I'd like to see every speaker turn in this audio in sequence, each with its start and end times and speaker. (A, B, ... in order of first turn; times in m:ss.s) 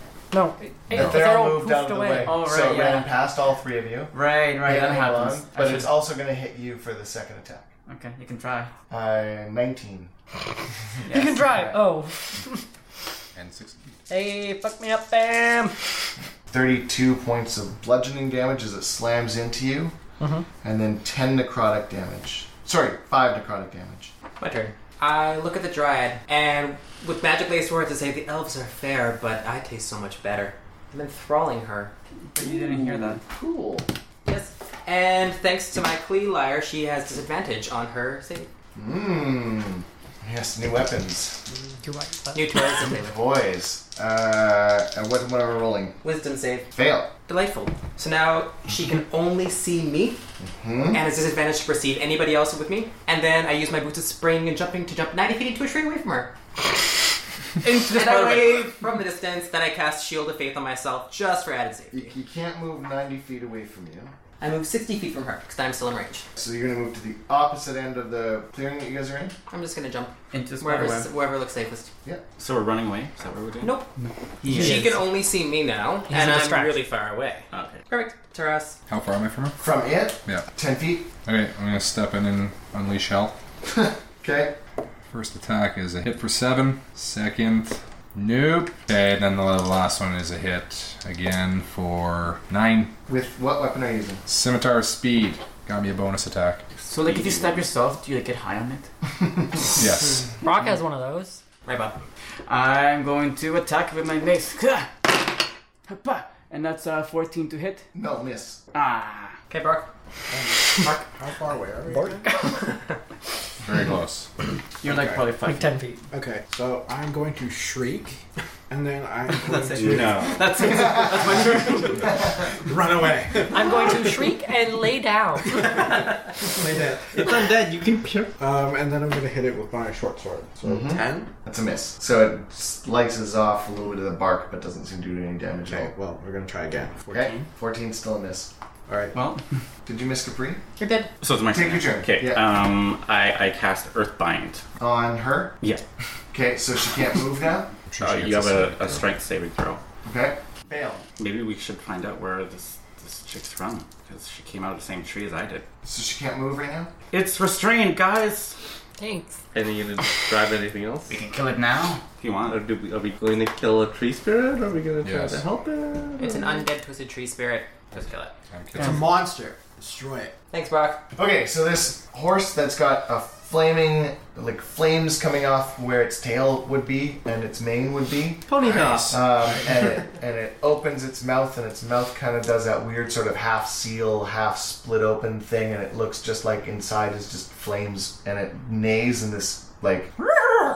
0:00.3-0:02.3 A
0:00.9-0:07.7 B
0:00.9-0:01.2 C
0:02.2-0:03.2 D
0:04.1-0:06.0 D
0:07.9-0:08.7 D
0:08.9-0:10.1 B
0:11.0-0:11.7 D
0:11.1-0:12.6 A
0:13.3-0:13.9 C
0:14.1-0:15.9 A
0:16.5-0:19.9 B
0:20.2-0:20.5 A
0:20.6-0:24.1 B
0:24.4-0:31.9 E
0:32.3-0:33.2 D
0:32.4-0:33.9 B
0:34.2-0:38.5 E
0:38.7-0:41.4 B
0:41.8-0:42.6 A
0:42.3-0:43.2 E
0:42.9-0:46.0 B
0:46.0-0:50.2 E
0:46.7-0:47.1 B
0:50.4-0:51.0 B
0:50.9-0:56.3 E
0:57.6-0:58.9 D
0:57.8-1:02.1 E
1:01.9-1:04.1 B
1:04.4-1:06.2 E
1:06.4-1:09.3 B
1:09.5-1:11.9 E
1:10.3-1:11.1 D
1:12.4-1:13.7 F
1:13.6-1:13.9 E
1:14.0-1:15.0 D
1:14.4-1:18.8 E
1:14.5-1:15.0 A
1:16.1-1:16.8 A
1:17.5-1:17.8 F
1:18.9-1:19.6 C
1:19.6-1:21.1 B
1:21.2-1:23.4 C
1:23.6-1:24.6 B
1:25.1-1:32.9 C
1:33.1-1:34.2 B
1:34.2-1:36.6 C
1:36.9-1:38.9 D
1:36.9-1:37.6 F
1:39.8-1:40.3 C
1:40.4-1:41.4 A
1:41.6-1:42.0 E
1:42.5-1:47.9 D
1:47.9-1:48.6 B
1:48.7-1:49.4 D
1:49.5-1:49.9 E
1:50.3-1:52.4 G
1:51.9-1:52.8 A
1:53.6-1:54.3 C
1:54.8-1:55.8 D
1:54.8-1:55.4 G
1:55.4-1:56.0 A
1:56.1-2:04.2 G
1:59.4-2:02.2 D
1:59.7-2:00.4 F
2:03.5-2:06.0 A
2:06.5-2:07.1 G
2:07.0-2:08.3 H
2:08.4-2:11.3 G
2:10.6-2:15.9 B
2:15.7-2:17.4 G
2:17.1-2:18.5 B
2:18.9-2:19.1 G
2:19.1-2:19.4 D
2:19.8-2:20.6 B
2:20.8-2:21.1 E
2:21.2-2:24.6 F
2:21.5-2:22.4 B
2:24.8-2:25.5 B
2:26.3-2:27.7 B
2:27.9-2:29.0 C
2:28.0-2:29.8 F
2:30.0-2:31.0 B
2:31.2-2:35.6 F
2:35.8-2:36.9 B
2:37.1-2:38.6 F
2:39.0-2:39.4 A
2:39.5-2:41.2 H
2:41.1-2:42.0 D
2:42.2-2:42.6 F
2:42.4-2:46.6 H
2:45.0-2:45.4 C
2:46.2-2:48.3 E
2:48.5-2:49.1 C
2:48.8-2:50.3 G
2:48.8-2:49.1 D
2:50.5-2:51.0 E
2:51.1-2:58.5 B
2:58.5-2:59.2 H
2:58.6-2:59.1 C
2:59.1-3:10.1 B